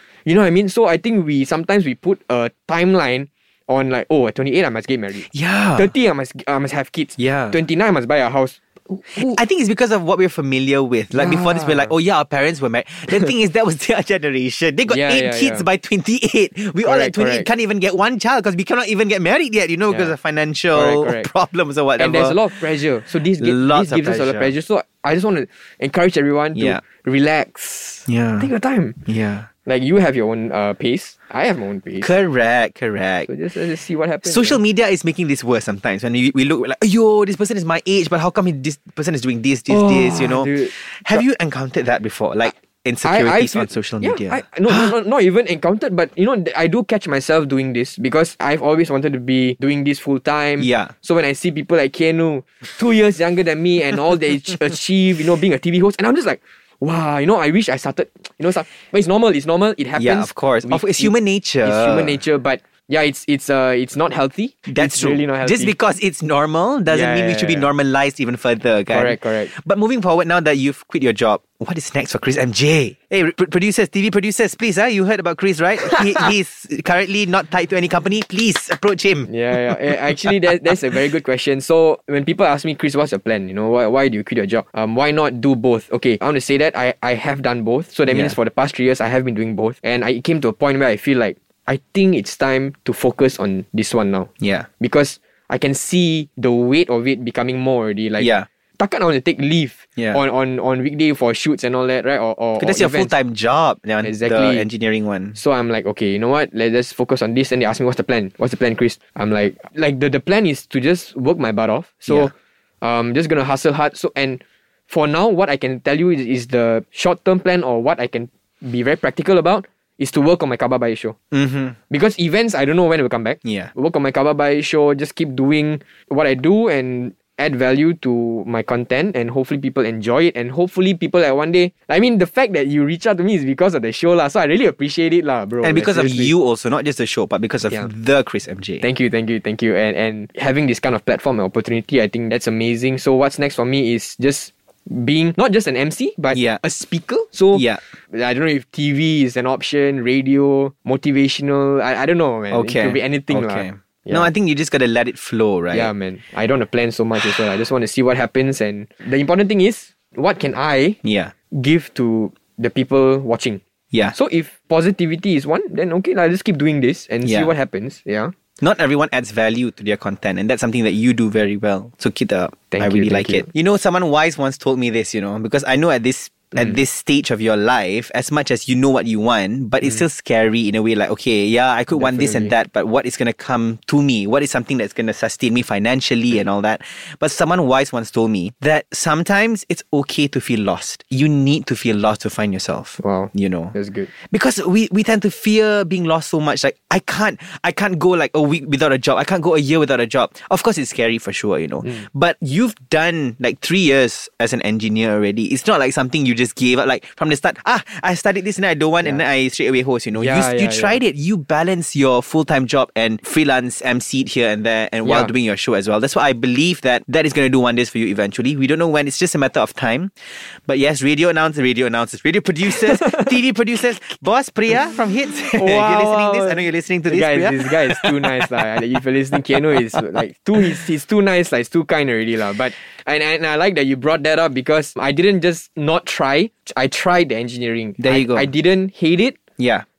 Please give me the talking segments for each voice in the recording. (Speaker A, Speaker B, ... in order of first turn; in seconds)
Speaker A: 0.2-9.4, 11.1-11.9, 14.9-15.6, 16.8-17.5, 20.7-21.3, 22.0-29.0, 29.6-32.1, 33.3-34.6, 39.7-41.2, 43.0-65.7, 66.9-67.7, 68.9-69.5, 79.3-94.3, 94.8-103.1, 104.0-104.6, 105.3-121.2, 121.9-136.3, 138.8-154.3, 155.7-161.0, 161.5-163.6, 164.1-168.3, 172.7-173.5, 181.9-182.5, 193.0-194.1, 210.1-211.0, 215.0-215.3, 222.9-223.3, 225.5-239.4
Speaker B: 5.3-5.9, 7.2-7.6, 9.1-22.4, 23.4-24.5, 26.5-26.8, 28.1-28.5, 29.1-29.5, 32.0-33.3, 34.2-44.9, 50.6-50.9, 60.0-62.2, 64.7-80.2, 88.1-88.3, 94.4-94.7, 98.2-98.5, 102.6-105.4, 121.3-121.8, 123.4-123.7, 135.6-138.8, 146.3-146.6, 147.5-147.8, 152.5-155.9, 161.0-161.3, 167.2-167.5, 168.6-193.7, 194.3-220.1, 220.7-228.7, 238.0-238.5, 239.6-239.8